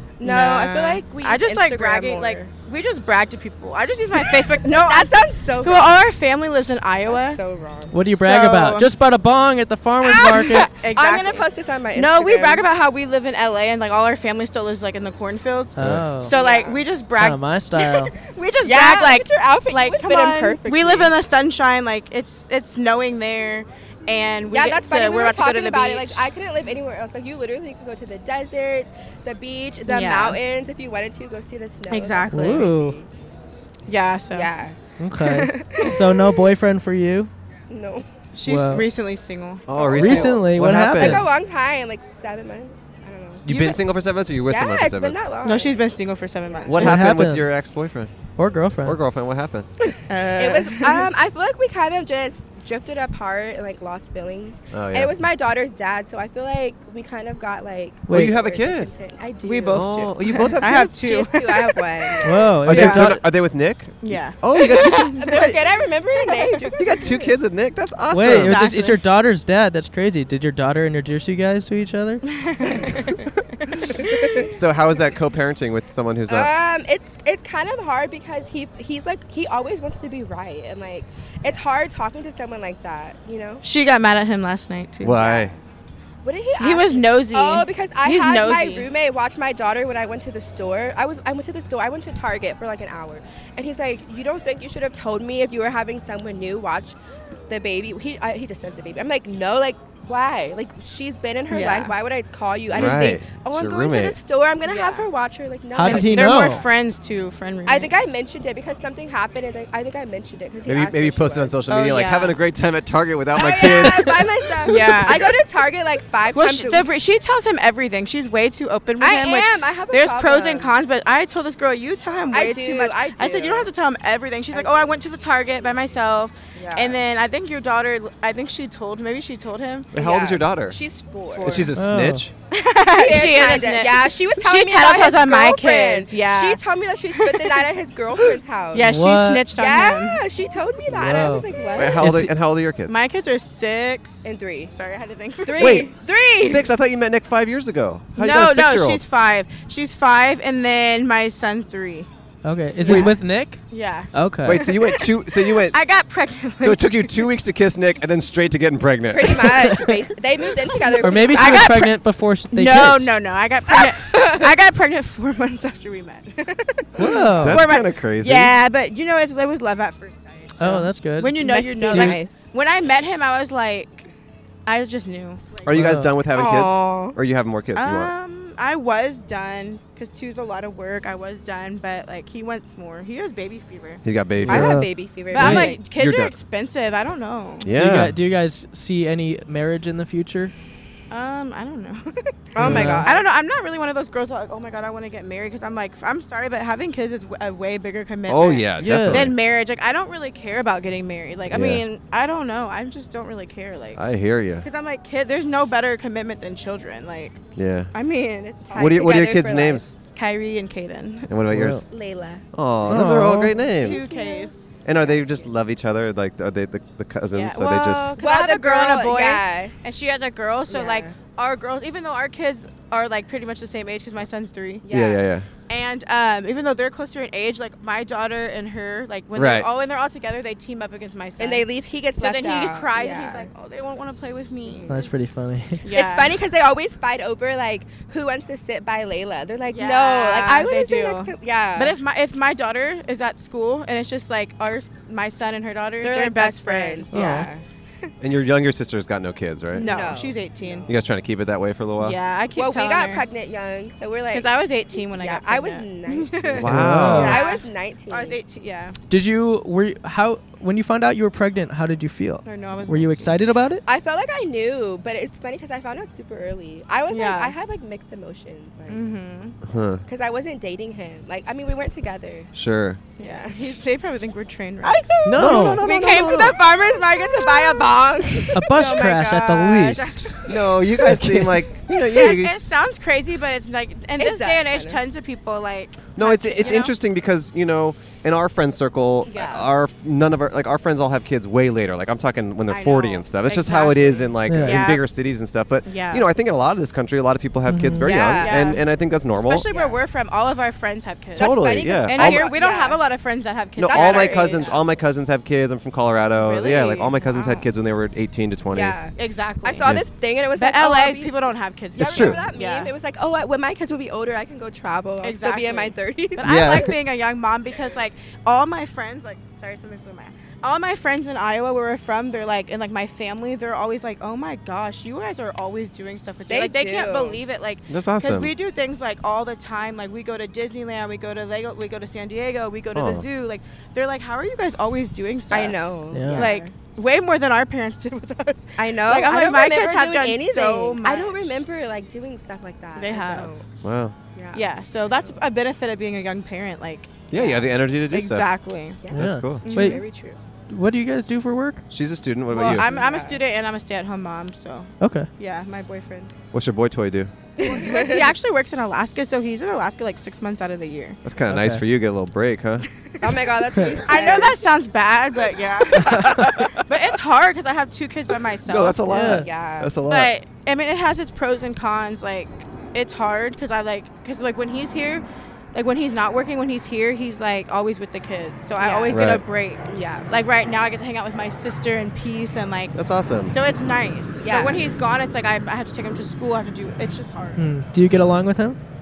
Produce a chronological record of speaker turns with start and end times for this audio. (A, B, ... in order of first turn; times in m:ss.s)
0:00.2-0:02.5 A
0:00.2-0:07.4 B
0:04.1-0:06.0 A
0:07.1-0:08.0 A
0:07.9-0:10.7 C
0:08.1-0:08.9 B
0:10.1-0:17.4 B
0:10.3-0:12.6 A
0:15.7-0:16.3 C
0:15.8-0:16.1 D
0:16.2-0:16.8 A
0:17.2-0:18.1 C
0:18.2-0:26.3 B
0:18.6-0:21.1 A
0:24.5-0:33.1 A
0:29.9-0:30.4 B
0:31.9-0:32.7 B
0:32.3-0:33.0 C
0:33.9-0:34.5 B
0:34.3-0:36.0 A
0:35.0-0:37.3 C
0:37.7-0:38.1 A
0:38.3-0:40.4 B
0:38.4-0:38.8 C
0:39.7-0:41.2 D
0:39.7-0:43.5 A
0:39.9-0:41.2 C
0:43.4-0:45.2 D
0:43.5-0:43.8 B
0:44.5-0:45.9 A
0:45.4-0:46.9 B
0:46.5-0:46.7 A
0:46.7-0:48.1 D
0:46.8-0:47.5 C
0:48.4-0:49.0 C
0:48.8-0:49.7 D
0:50.1-0:51.1 B
0:50.2-0:59.8 A
0:54.7-0:55.1 D
0:58.1-0:58.3 C
0:58.1-0:58.9 D
0:59.4-1:03.1 B
0:59.7-1:01.0 D
1:00.7-1:02.8 A
1:02.2-1:03.2 C
1:02.7-1:05.6 D
1:04.0-1:05.4 B
1:04.6-1:07.2 A
1:06.2-1:07.0 B
1:06.8-1:08.6 D
1:08.1-1:12.2 C
1:08.3-1:09.0 B
1:12.3-1:13.1 B
1:12.6-1:13.2 A
1:14.0-1:14.5 A
1:14.0-1:14.4 B
1:14.5-1:16.5 D
1:16.3-1:23.6 A
1:23.6-1:25.2 B
1:25.0-1:25.5 D
1:25.1-1:25.6 A
1:26.2-1:37.0 A
1:26.6-1:28.9 B
1:37.5-1:46.6 A
1:41.5-1:42.0 B
1:42.7-1:44.2 D
1:44.6-1:45.1 B
1:45.7-1:46.6 C
1:45.8-1:47.9 B
1:47.6-1:51.6 A
1:50.6-1:54.2 D
1:51.7-1:52.4 B
1:53.3-1:56.9 A
1:54.6-1:55.4 B
1:56.3-2:10.0 B
1:59.0-2:00.7 A
2:02.3-2:03.7 A
2:04.5-2:04.9 A
2:06.5-2:07.0 A
2:09.9-2:10.8 D
2:09.9-2:11.7 A
2:11.3-2:11.7 B
2:11.4-2:12.3 D
2:11.8-2:12.2 C
2:12.5-2:17.7 B
2:12.9-2:19.0 A
2:18.2-2:20.2 B
2:18.8-2:19.4 C
2:19.5-2:22.1 A
2:20.9-2:21.4 C
2:21.8-2:23.0 D
2:22.0-2:22.3 C
2:22.8-2:25.9 B
2:24.2-2:24.7 A
2:25.4-2:26.7 A
2:25.6-2:25.9 D
2:26.4-2:29.0 D
2:28.2-2:32.1 B
2:32.4-2:33.6 C
2:32.8-2:37.2 B
2:32.9-2:33.1 D
2:34.1-2:34.6 C
2:34.4-2:35.8 D
2:36.6-2:39.6 D
2:39.1-2:41.7 A
2:41.0-2:43.1 C
2:41.2-2:42.0 B
2:42.5-2:46.4 B
2:43.7-2:44.5 A
2:47.0-2:47.6 C
2:47.0-2:54.1 B
2:47.4-2:48.5 D
2:50.6-2:52.2 C
2:51.4-2:52.5 A
2:54.6-2:55.7 B
2:55.6-2:58.1 D
2:55.7-2:56.1 C
2:56.3-2:57.2 A
2:57.7-3:04.0 B
3:04.0-3:04.8 D
3:04.4-3:04.9 C
3:04.5-3:05.8 A
3:05.3-3:07.7 B
3:05.4-3:06.3 D
3:05.4-3:05.7 C
3:07.6-3:08.2 D
3:07.7-3:10.5 C
3:11.1-3:24.0 B
3:12.5-3:13.3 A
3:12.6-3:13.1 C
3:12.6-3:12.9 D
3:18.3-3:19.4 D
3:18.8-3:19.3 C
3:21.5-3:21.8 D
3:23.9-3:24.6 D
3:24.6-3:27.4 B
3:27.6-3:27.9 D
3:27.9-3:29.0 B
3:28.6-3:29.8 A
3:28.8-3:29.9 D
3:30.0-3:31.3 B
3:31.3-3:31.8 D
3:31.5-3:31.8 C
3:31.8-3:32.4 A
3:32.5-3:34.0 D
3:32.9-3:33.5 C
3:33.6-3:34.8 B
3:33.8-3:35.5 A
3:34.8-3:38.2 D
3:37.3-3:44.9 B
3:38.2-3:39.7 A
3:40.7-3:41.2 A
3:44.8-3:45.2 A
3:44.9-3:45.5 D
3:45.7-3:54.9 B
3:49.3-3:49.7 D
3:51.4-3:53.5 A
3:54.6-3:55.1 A
3:54.9-3:55.8 C
3:55.8-3:56.4 B
3:55.9-4:02.0 A
3:59.7-4:07.5 B
4:06.0-4:07.6 A
4:07.1-4:07.5 C
4:08.2-4:09.9 D
4:09.7-4:10.9 A
4:09.7-4:10.9 B
4:10.9-4:12.2 D
4:12.0-4:13.2 B
4:12.5-4:18.4 A
4:14.3-4:19.0 B
4:16.5-4:17.4 D
4:16.6-4:17.4 C
4:19.1-4:23.8 C
4:22.4-4:23.4 B
4:23.8-4:29.1 A
4:27.1-4:27.5 B
4:28.9-4:29.6 B
4:29.6-4:30.0 D
4:30.0-4:32.5 A
4:32.5-4:33.0 D
4:33.2-4:35.2 B
4:33.2-4:33.8 A
4:34.8-4:38.7 A
4:35.2-4:35.8 C
4:35.3-4:36.6 D
4:37.0-4:38.0 B
4:38.5-4:40.4 C
4:38.7-4:40.6 B
4:40.5-4:42.7 D
4:41.1-4:41.5 C
4:42.1-4:46.9 B
4:44.2-4:45.0 A
4:46.1-4:59.6 D
4:46.2-4:46.8 A
4:49.3-4:49.7 B
4:52.7-4:55.0 B
4:54.5-4:54.8 C
4:55.8-4:56.3 B
4:57.7-4:58.1 C
4:58.0-4:58.7 A
4:58.3-4:58.8 B
4:59.3-5:04.8 B
4:59.7-5:00.0 A
5:01.4-5:02.5 D
5:01.4-5:03.0 A
5:03.8-5:09.0 D
5:03.9-5:04.8 A
5:06.4-5:07.7 B
5:08.7-5:11.3 A
5:09.2-5:10.0 B
5:10.5-5:12.9 B
5:11.9-5:16.9 A
5:12.0-5:12.4 D
5:15.2-5:41.6 B
5:16.4-5:16.9 D
5:26.5-5:27.4 A
5:27.9-5:28.5 D
5:32.9-5:33.2 D
5:35.5-5:36.7 A
5:36.1-5:36.5 C
5:38.8-5:43.6 A
5:43.0-5:43.5 B
5:43.8-5:44.2 D
5:44.3-5:45.4 A
5:44.5-5:49.0 B
5:47.3-5:48.5 D
5:49.0-5:50.4 A
5:49.1-5:50.0 C
5:49.1-5:49.7 D
5:49.6-5:50.0 B
5:50.7-5:51.8 C
5:51.9-5:52.8 D
5:52.5-5:56.3 B
5:52.7-5:53.4 A
5:55.0-5:55.3 C
5:56.5-5:57.3 D
5:57.6-5:58.4 A
5:57.6-6:01.2 B
6:01.2-6:02.9 D
6:01.5-6:01.8 C
6:03.1-6:09.1 B
6:03.2-6:04.6 A
6:06.0-6:06.4 C
6:06.0-6:06.8 D
6:08.6-6:10.3 D
6:09.1-6:09.5 C
6:09.1-6:10.0 A
6:10.0-6:23.0 B
6:18.8-6:19.2 A
6:19.1-6:19.4 D
6:19.9-6:20.3 A
6:22.9-6:23.5 D
6:23.5-6:27.6 B
6:24.4-6:24.9 A
6:27.6-6:28.8 C